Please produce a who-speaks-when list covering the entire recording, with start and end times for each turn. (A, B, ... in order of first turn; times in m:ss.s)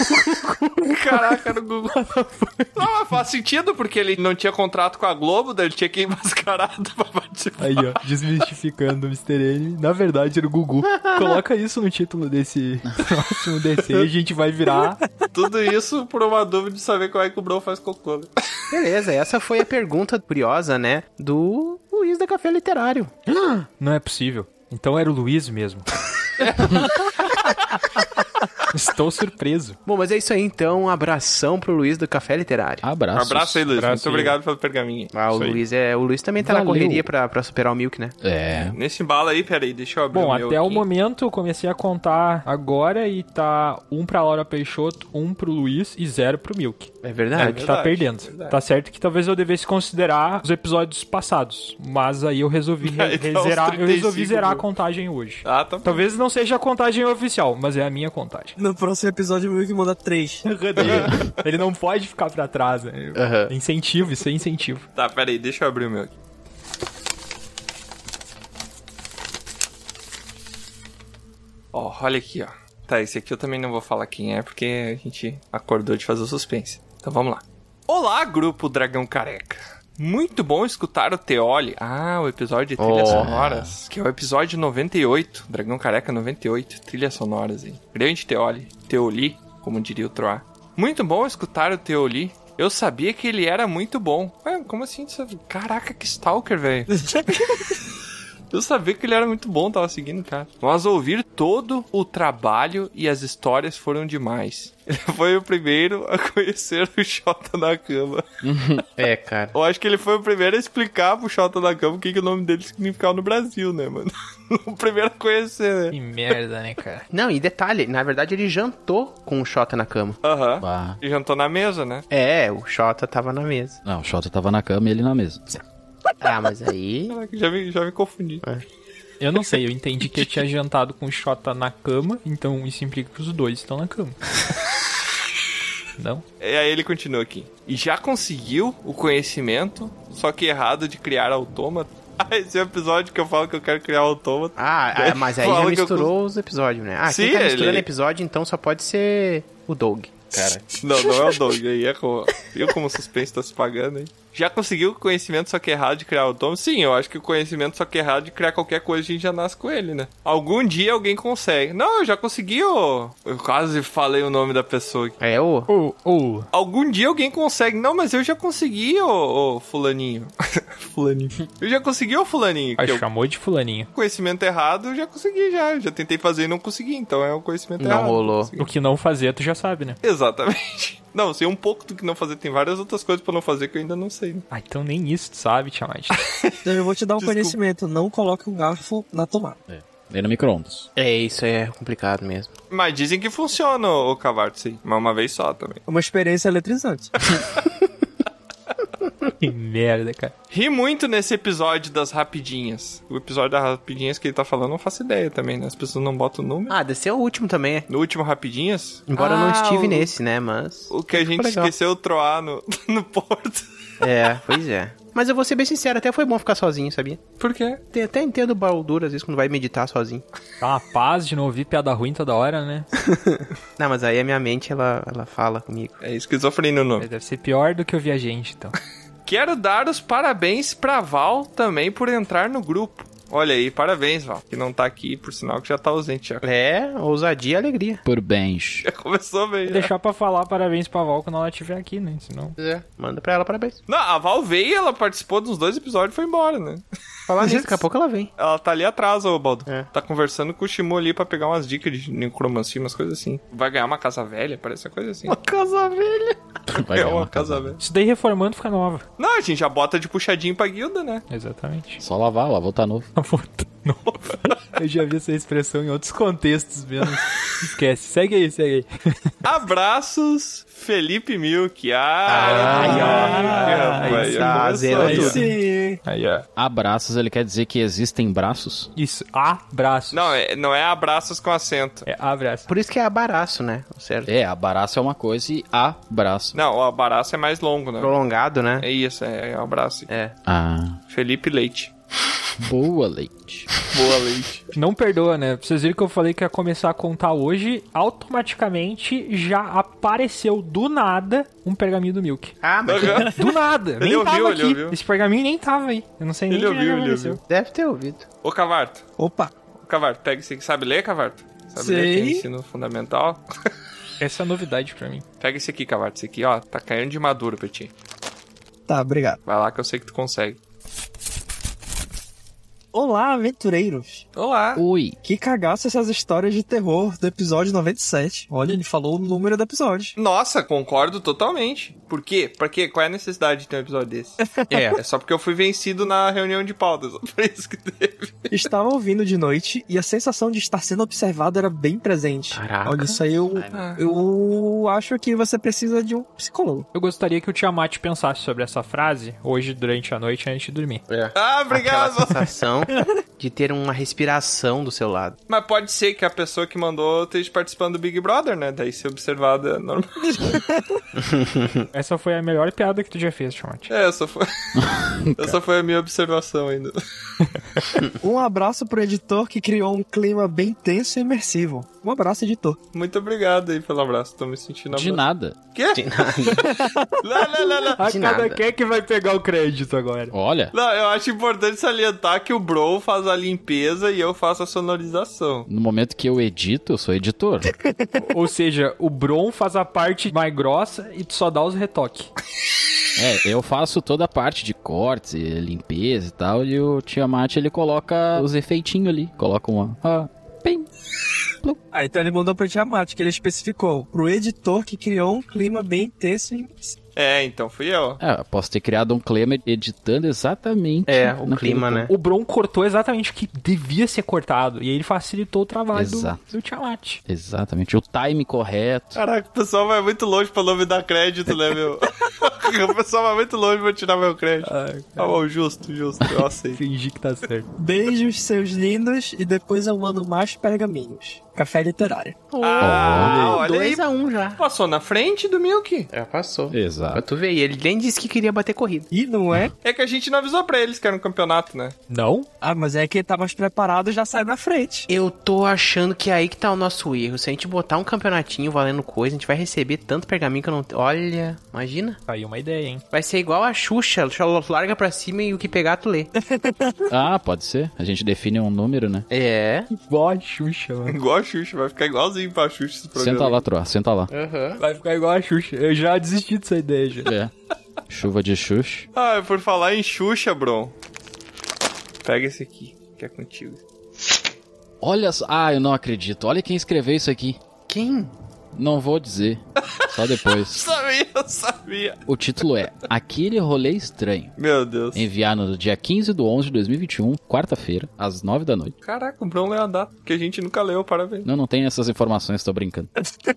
0:00.8-0:08.0 A
0:07.6-0:15.0 B
0:10.9-0:11.4 C
0:15.3-0:18.3 A
0:18.7-0:23.1 C
0:23.3-0:25.9 B
0:28.7-0:29.8 B
0:29.8-0:32.8 C
0:32.8-0:33.6 D
0:33.1-0:35.1 A
0:33.7-0:34.4 B
0:35.1-0:38.2 C
0:35.3-0:35.6 B
0:36.4-0:37.1 D
0:38.2-0:38.8 D
0:38.5-0:40.8 A
0:40.1-0:58.5 B
0:47.0-0:47.7 C
0:47.4-0:48.6 A
0:52.8-0:54.6 A
0:55.4-0:56.0 A
0:58.6-1:00.4 E
1:00.4-1:04.8 B
1:03.1-1:03.5 C
1:04.9-1:06.1 A
1:11.7-1:37.1 A
1:22.8-1:23.3 C
1:22.9-1:23.7 D
1:37.0-1:37.4 E
1:38.5-1:48.2 A
1:48.4-1:48.8 D
1:49.0-1:49.5 C
1:49.5-1:56.0 A
1:55.9-1:57.0 B
1:57.1-2:00.2 C
2:00.2-2:02.0 A
2:00.6-2:01.0 D
2:02.1-2:03.8 C
2:03.8-2:05.6 D
2:06.2-2:07.2 C
2:07.1-2:08.4 A
2:09.2-2:14.2 B
2:16.0-2:16.2 B
2:16.4-2:26.1 A
2:24.6-2:30.5 C
2:27.0-2:27.9 A
2:30.3-2:30.6 D
2:30.8-2:45.2 A
2:45.2-2:45.7 C
2:45.7-2:46.5 B
2:46.5-2:53.0 A
2:52.8-2:53.9 B
2:53.9-2:58.7 A
2:57.8-2:58.5 C
2:58.6-3:00.0 B
3:00.0-3:04.4 A
3:04.5-3:06.2 B
3:06.2-3:06.6 A
3:06.6-3:09.6 E
3:07.2-3:07.6 A
3:09.7-3:10.9 D
3:11.0-3:12.5 C
3:12.7-3:15.8 A
3:15.9-3:17.1 E
3:19.4-3:20.3 B
3:20.5-3:26.8 A
3:26.7-3:27.9 C
3:27.9-3:30.1 A
3:29.1-3:31.7 C
3:30.9-3:33.6 A
3:34.0-3:37.2 C
3:37.4-3:37.8 A
3:37.9-3:40.2 C
3:40.6-3:42.9 B
3:43.0-3:46.0 C
3:46.0-3:47.1 A
3:47.0-3:48.7 B
3:49.2-3:56.4 A
3:56.4-3:58.0 C
3:58.0-3:58.8 D
3:58.8-3:59.9 A
3:59.7-4:02.6 B
4:02.6-4:03.8 C
4:03.9-4:06.8 A
4:07.3-4:08.3 C
4:08.4-4:15.4 A
4:15.3-4:16.4 C
4:16.7-4:17.8 D
4:16.8-4:17.8 A
4:17.8-4:19.0 B
4:19.2-4:21.2 A
4:21.3-4:22.0 B
4:22.0-4:23.1 D
4:23.2-4:29.3 B
4:29.4-4:35.4 A
4:32.3-4:33.4 C
4:32.6-4:36.4 B
4:32.7-4:34.3 E
4:34.0-4:35.4 C
4:34.9-4:36.0 E
4:36.6-4:38.9 D
4:39.0-4:40.4 B
4:40.1-4:42.0 A
4:42.0-4:42.7 B
4:42.7-4:44.3 C
4:44.2-4:46.6 D
4:46.5-4:48.1 A
4:48.0-4:48.8 C
4:48.8-4:50.1 A
4:50.1-4:50.3 C
4:50.4-4:51.0 D
4:51.1-4:51.9 A
4:52.6-4:53.7 D
4:53.9-4:54.7 A
4:54.7-5:02.5 B
5:02.6-5:03.3 C
5:02.8-5:03.4 A
5:03.3-5:07.4 B
5:04.0-5:05.0 A
5:06.5-5:07.4 A
5:07.5-5:08.2 C
5:08.4-5:09.0 A
5:09.2-5:09.5 E
5:09.8-5:13.4 A
5:11.8-5:12.4 E
5:14.2-5:15.2 B
5:15.4-5:17.9 A
5:18.9-5:19.4 E
5:19.4-5:20.6 A
5:22.9-5:24.2 E
5:24.4-5:24.8 A
5:24.7-5:25.2 D
5:25.2-5:30.1 E
5:30.2-5:34.4 A
5:34.4-5:34.8 E
5:34.7-5:35.0 C
5:34.9-5:38.7 A
5:38.5-5:46.9 E
5:42.5-5:43.2 C
5:43.7-5:44.0 A
5:46.9-5:51.0 B
5:51.1-5:55.4 C
5:51.3-5:52.6 A
5:55.5-6:00.6 A
6:00.3-6:01.0 E
6:01.2-6:01.8 C
6:01.9-6:03.9 B
6:03.9-6:04.8 A
6:04.7-6:05.6 D
6:05.4-6:07.0 A
6:08.2-6:12.8 E
6:12.9-6:15.2 A
6:14.9-6:15.6 D
6:15.7-6:18.0 A
6:15.9-6:16.7 C
6:16.6-6:17.0 E
6:18.0-6:20.3 B
6:18.0-6:18.6 C
6:20.3-6:20.7 D
6:20.7-6:25.7 A
6:25.7-6:27.7 D
6:28.2-6:32.3 B
6:33.2-6:40.9 D
6:41.9-6:47.0 E
6:47.2-6:48.2 A
6:48.2-6:52.1 D
6:51.0-6:52.1 C
6:52.1-6:57.2 B
6:55.9-6:56.4 D
6:57.2-6:59.2 D
6:59.1-7:06.8 A
7:04.6-7:05.4 B
7:06.8-7:07.7 B
7:07.8-7:12.4 E
7:12.5-7:14.6 C
7:12.6-7:14.0 A
7:12.8-7:13.4 D
7:13.2-7:13.6 B
7:14.6-7:16.1 A
7:16.1-7:19.1 C
7:16.7-7:17.2 D
7:19.1-7:19.7 E
7:19.8-7:21.9 A
7:22.1-7:22.5 B
7:22.6-7:25.1 E
7:25.1-7:32.2 C
7:32.3-7:33.0 B
7:33.1-7:36.3 C
7:36.4-7:37.0 E
7:37.1-7:39.2 D
7:39.3-7:39.9 C
7:39.9-7:41.2 B
7:41.1-7:43.6 A
7:43.1-7:44.3 D
7:44.3-7:44.8 C
7:44.8-7:47.3 B
7:47.2-7:47.5 D
7:48.1-7:49.1 D
7:49.1-7:50.9 A
7:52.2-7:53.8 A
7:55.0-7:57.6 D
7:57.9-7:58.3 C
7:58.7-8:00.8 D
8:00.0-8:02.2 A
8:02.3-8:04.5 D
8:04.6-8:05.3 A
8:05.1-8:08.9 D
8:09.0-8:11.5 A
8:11.4-8:13.1 D